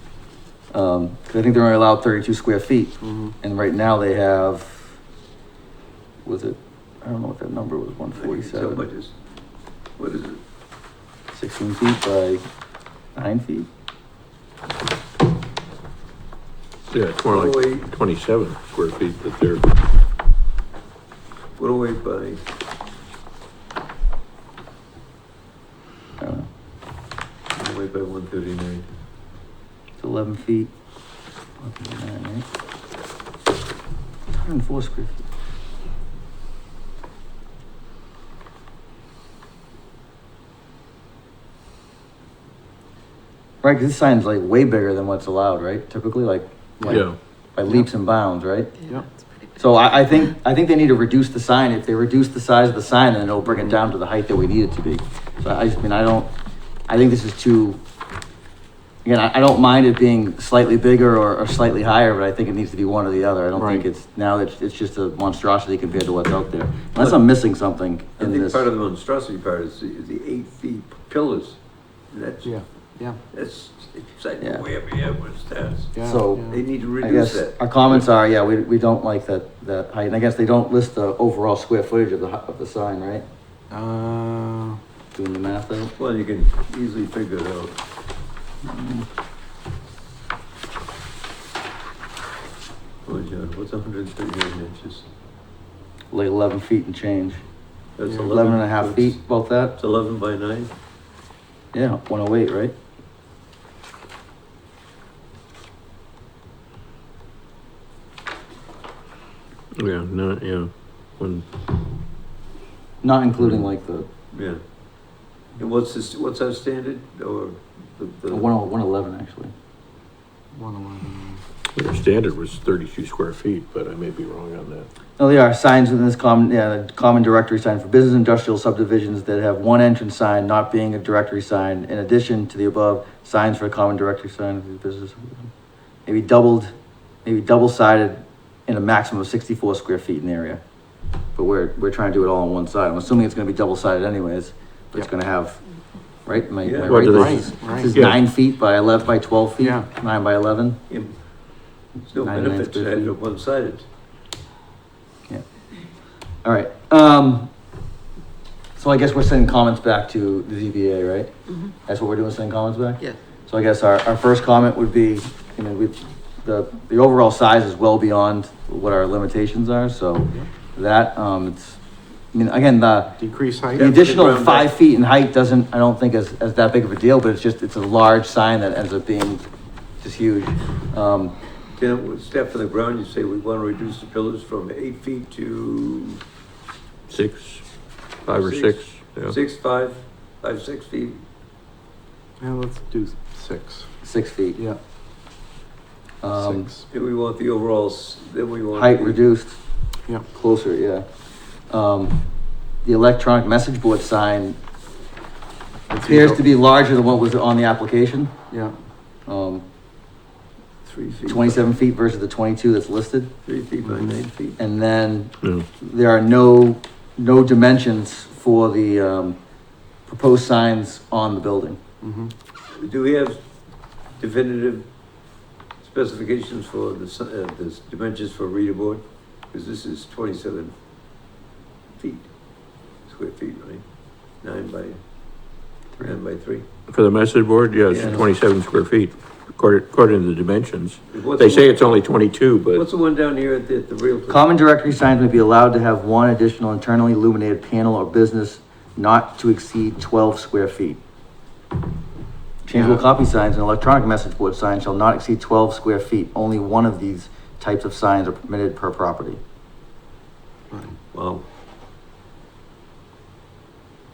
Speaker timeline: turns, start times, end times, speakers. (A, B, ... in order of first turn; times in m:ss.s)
0:00.7-0:04.9 A
0:03.0-0:03.3 B
0:06.2-0:08.9 A
0:08.2-0:09.1 C
0:10.0-0:10.4 C
0:11.3-0:12.4 A
0:13.2-0:13.7 A
0:16.9-0:19.7 D
0:17.3-0:17.9 C
0:21.6-0:22.4 C
0:26.2-0:26.5 A
0:27.6-0:28.9 C
0:30.0-0:30.7 A
0:31.6-0:32.5 A
0:34.3-0:35.2 A
0:43.6-0:48.8 A
0:46.8-0:47.1 B
0:46.9-0:47.2 D
0:49.6-0:56.3 A
0:56.9-0:57.8 A
0:59.0-1:08.6 A
1:03.6-1:03.9 B
1:08.2-1:11.6 C
1:12.1-1:12.5 C
1:12.4-1:13.2 B
1:13.3-1:16.0 C
1:16.0-1:16.6 B
1:16.0-1:23.2 A
1:16.5-1:18.0 C
1:23.7-1:24.8 B
1:25.2-1:25.9 A
1:26.0-1:27.8 C
1:28.6-1:29.1 A
1:33.0-1:35.0 C
1:36.1-1:37.4 A
1:38.0-1:39.2 C
1:38.3-1:39.8 A
1:39.8-1:40.7 C
1:41.7-1:42.7 A
1:49.8-1:51.4 D
1:53.0-1:54.1 A
1:54.3-1:54.6 C
1:55.6-1:58.5 C
1:58.3-1:59.5 A
2:00.5-2:01.4 B
2:01.8-2:04.9 D
2:05.2-2:15.5 A
2:16.1-2:16.7 A
2:17.2-2:20.6 A
2:21.4-2:25.6 A
2:26.2-2:30.8 A
2:26.6-2:27.1 C
2:26.8-2:28.2 D
2:27.1-2:27.9 B
2:29.6-2:29.9 B
2:30.9-2:31.2 C
2:32.1-2:33.8 C
2:32.2-2:33.1 A
2:36.4-2:37.5 A
2:38.8-2:51.8 A
2:52.3-2:53.2 A
2:53.2-2:53.9 B
2:53.8-2:54.7 C
2:53.8-2:59.4 A
3:00.0-3:01.4 A
3:01.8-3:06.2 C
3:07.1-3:07.6 D
3:08.2-3:09.4 D
3:08.3-3:11.2 C
3:12.4-3:13.9 B
3:14.0-3:14.6 A
3:16.2-3:16.7 A
3:16.3-3:16.9 B
3:16.9-3:19.2 C
3:18.8-3:19.6 A
3:20.3-3:21.0 A
3:21.7-3:22.2 A
3:22.8-3:24.6 A
3:25.9-3:26.4 B
3:26.0-3:28.3 A
3:28.5-3:28.8 B
3:29.3-3:29.6 A
3:30.8-3:31.6 C
3:31.3-3:33.3 A
3:33.5-3:34.6 C
3:33.8-3:34.2 B
3:34.6-3:39.4 A
3:40.1-3:41.8 A
3:42.0-3:42.3 B
3:42.8-3:43.4 C
3:44.2-3:44.8 C
3:45.8-3:50.7 C
3:52.0-3:52.3 C
3:53.1-3:53.8 C
3:54.4-3:55.0 C
3:56.0-3:56.6 C
3:56.9-4:02.8 D
3:57.9-3:58.2 C
4:01.1-4:01.8 C
4:02.7-4:04.4 C
4:04.3-4:11.0 A
4:12.6-4:19.4 A
4:12.7-4:13.0 B
4:20.7-4:21.0 B
4:21.1-4:21.4 C